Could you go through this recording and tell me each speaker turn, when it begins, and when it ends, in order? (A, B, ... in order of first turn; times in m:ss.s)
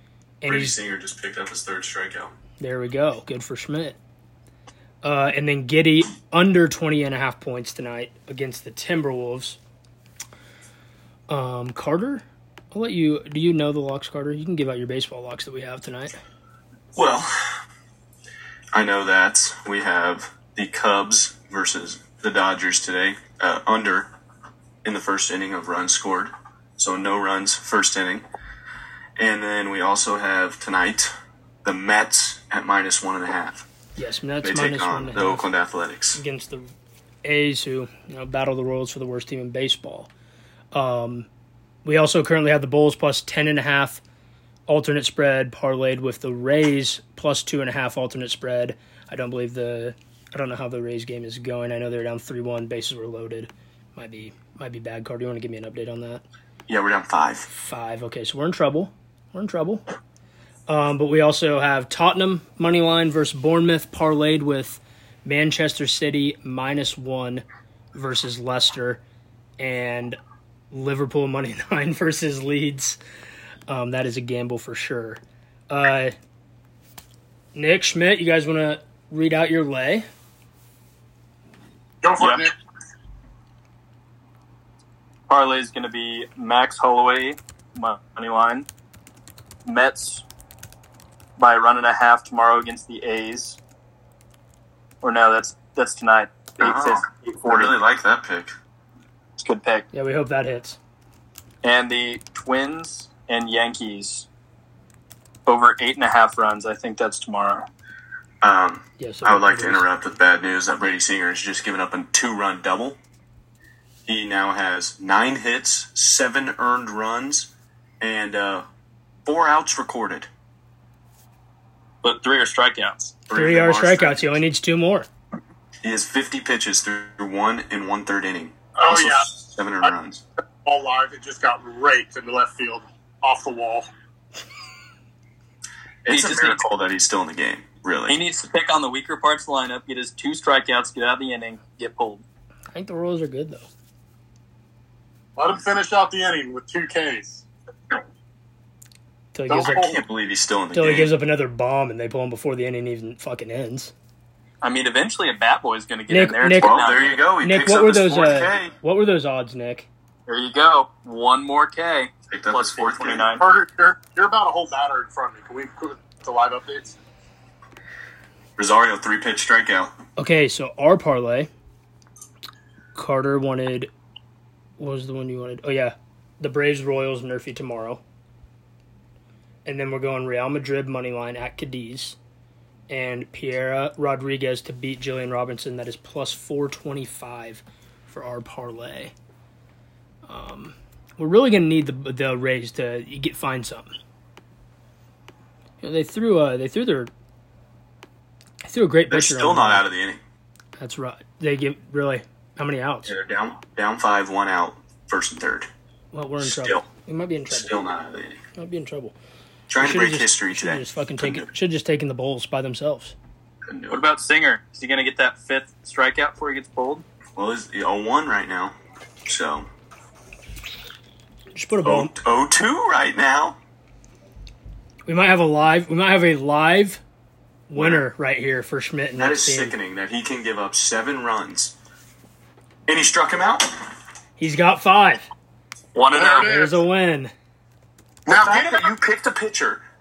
0:00.4-0:00.8 A
0:00.5-0:02.3 B
0:02.6-0:04.0 A
0:05.0-0:09.6 A
0:11.3-0:16.2 A
0:17.0-0:17.3 B
0:18.7-0:24.1 B
0:24.8-0:28.2 B
0:29.2-0:31.1 B
0:31.6-0:33.7 B
0:34.0-0:35.5 A
0:34.4-0:36.2 B
0:36.1-0:36.7 A
0:37.2-0:40.1 A
0:40.7-0:41.3 A
0:41.8-0:44.0 A
0:44.7-0:56.2 A
0:56.7-0:57.5 B
0:57.5-0:59.8 A
1:00.7-1:09.0 A
1:09.6-1:10.2 A
1:10.7-1:13.0 A
1:13.7-1:16.1 A
1:17.6-1:20.1 A
1:22.0-1:22.5 C
1:22.2-1:22.5 D
1:25.3-1:28.7 D
1:29.6-1:30.2 D
1:31.4-1:33.6 D
1:35.0-1:37.7 D
1:36.6-1:38.5 B
1:39.4-1:39.8 D
1:39.9-1:40.8 A
1:41.6-1:44.3 D
1:45.5-1:47.7 D
1:48.4-1:53.0 B
1:49.0-1:49.9 A
1:54.1-1:58.6 B
1:59.3-2:00.3 B
2:02.0-2:03.1 D
2:03.3-2:04.4 B
2:03.3-2:05.1 A
2:05.8-2:10.2 B
2:08.8-2:09.9 C
2:10.6-2:13.9 C
2:16.0-2:18.2 B
2:16.1-2:16.7 D
2:18.1-2:22.2 D
2:22.7-2:23.7 A
2:25.4-2:27.4 C
2:29.3-2:29.9 A
2:29.5-2:30.0 C
2:29.7-2:31.1 B
2:30.7-2:33.9 A
2:34.6-2:37.2 D
2:36.1-2:36.8 A
2:36.6-2:38.7 B
2:37.4-2:39.9 A
2:40.3-2:43.4 D
2:42.3-2:43.3 B
2:43.2-2:47.0 C
2:48.6-2:49.9 B
2:50.2-2:51.5 A
2:53.0-2:53.9 A
2:54.8-2:58.0 A
2:59.6-3:02.2 A
3:02.9-3:09.1 A
3:10.3-3:13.9 A
3:15.8-3:17.1 A
3:18.6-3:19.8 A
3:19.1-3:20.2 B
3:20.8-3:23.2 A
3:23.1-3:25.7 B
3:26.1-3:27.8 A
3:26.4-3:26.9 B
3:27.5-3:28.4 B
3:28.6-3:29.2 A
3:29.7-3:31.5 B
3:29.8-3:33.2 A
3:33.7-3:34.0 B
3:33.9-3:37.0 D
3:37.4-3:39.7 B
3:41.5-3:42.2 A
3:41.8-3:43.6 B
3:45.1-3:47.0 A
3:47.7-3:49.8 A
3:47.8-3:48.0 B
3:49.2-3:51.8 B
3:52.9-3:53.9 B
3:54.4-3:55.2 A
3:56.0-3:56.5 D
3:56.1-3:56.8 C
3:56.4-3:57.3 A
3:58.3-3:59.8 B
3:58.3-3:58.9 C